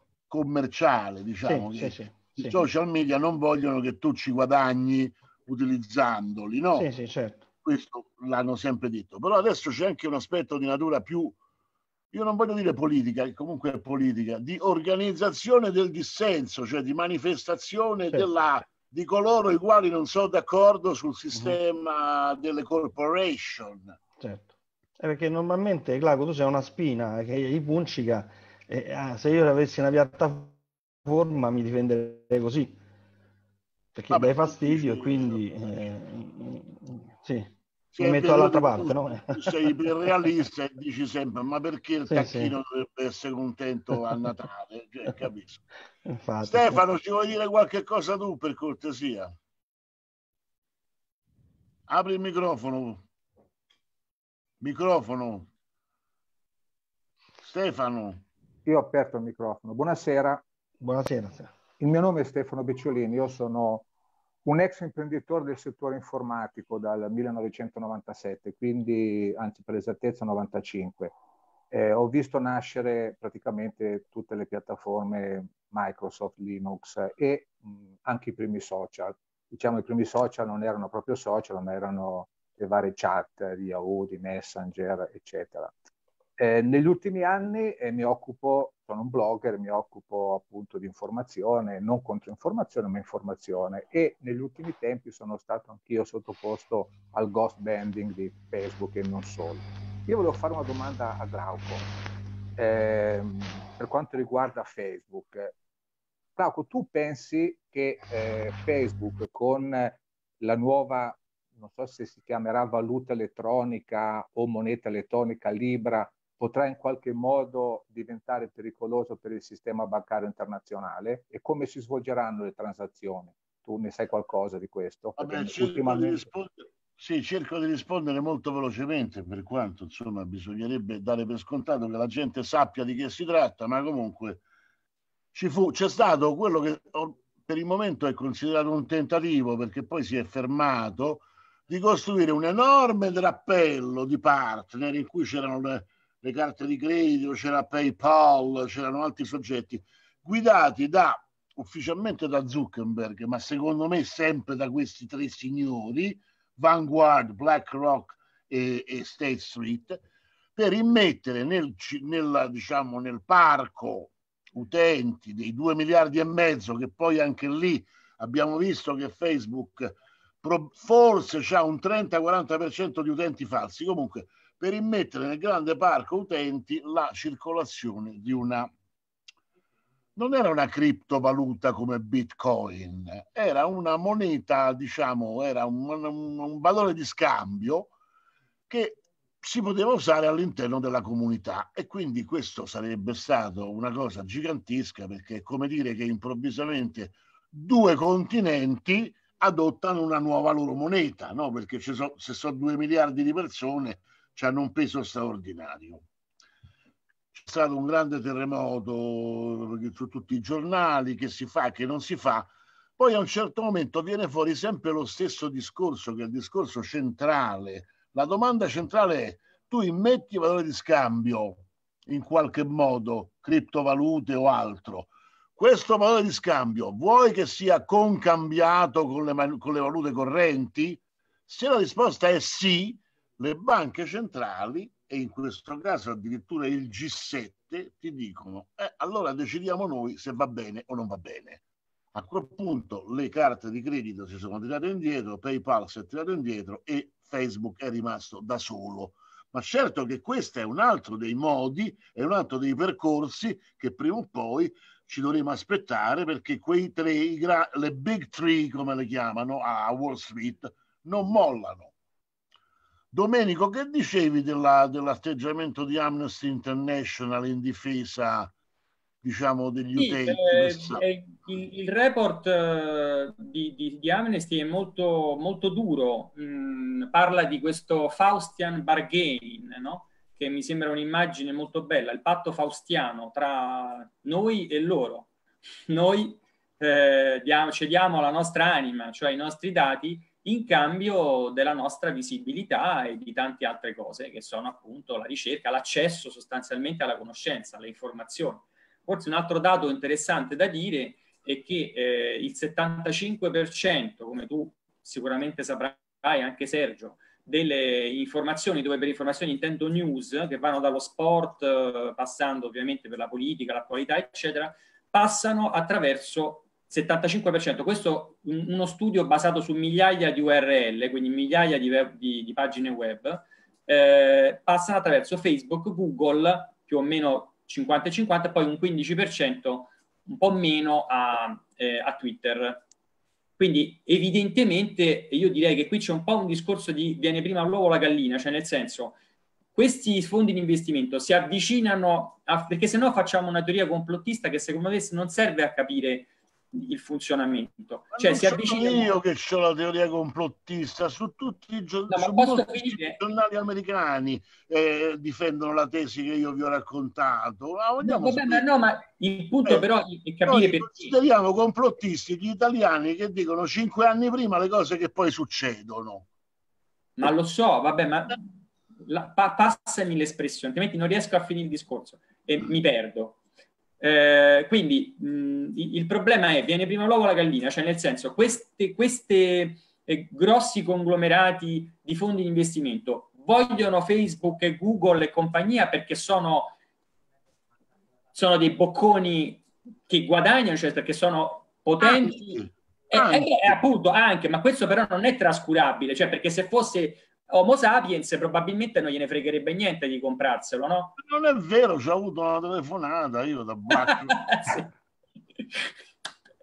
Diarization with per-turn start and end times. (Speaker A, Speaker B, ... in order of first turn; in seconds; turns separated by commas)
Speaker A: 0.3-6.9, Speaker B: 1.4-2.6, Speaker B: 6.7-7.4, Speaker A: 7.6-11.3, Speaker A: 12.1-24.0, Speaker B: 24.2-32.8, Speaker B: 33.9-39.7, Speaker A: 34.1-35.8, Speaker A: 37.9-45.6, Speaker B: 42.1-42.5, Speaker B: 46.0-46.8, Speaker A: 46.4-49.3, Speaker A: 51.9-53.0, Speaker A: 54.6-55.5, Speaker A: 57.4-58.2, Speaker C: 58.6-60.4, Speaker B: 60.8-61.5, Speaker C: 61.8-63.9, Speaker C: 64.4-71.1, Speaker C: 71.7-85.8, Speaker C: 86.4-101.8, Speaker C: 102.6-105.5, Speaker C: 106.4-126.3, Speaker A: 125.2-134.4, Speaker A: 135.3-160.0, Speaker A: 160.6-178.7, Speaker A: 180.2-187.9, Speaker A: 188.7-206.0, Speaker A: 207.3-241.6, Speaker A: 242.1-261.9, Speaker A: 263.1-268.5, Speaker A: 269.2-271.0, Speaker D: 269.9-285.3, Speaker D: 285.9-332.8, Speaker D: 333.6-339.1, Speaker D: 339.7-349.1, Speaker A: 348.1-358.7, Speaker D: 352.1-353.2, Speaker D: 358.0-361.1, Speaker A: 360.4-366.3, Speaker D: 367.2-368.5, Speaker D: 369.0-373.4, Speaker D: 374.0-386.7, Speaker D: 388.3-392.6, Speaker A: 392.0-393.8, Speaker D: 393.1-401.2, Speaker A: 401.2-404.7, Speaker D: 404.1-404.9, Speaker D: 405.6-405.9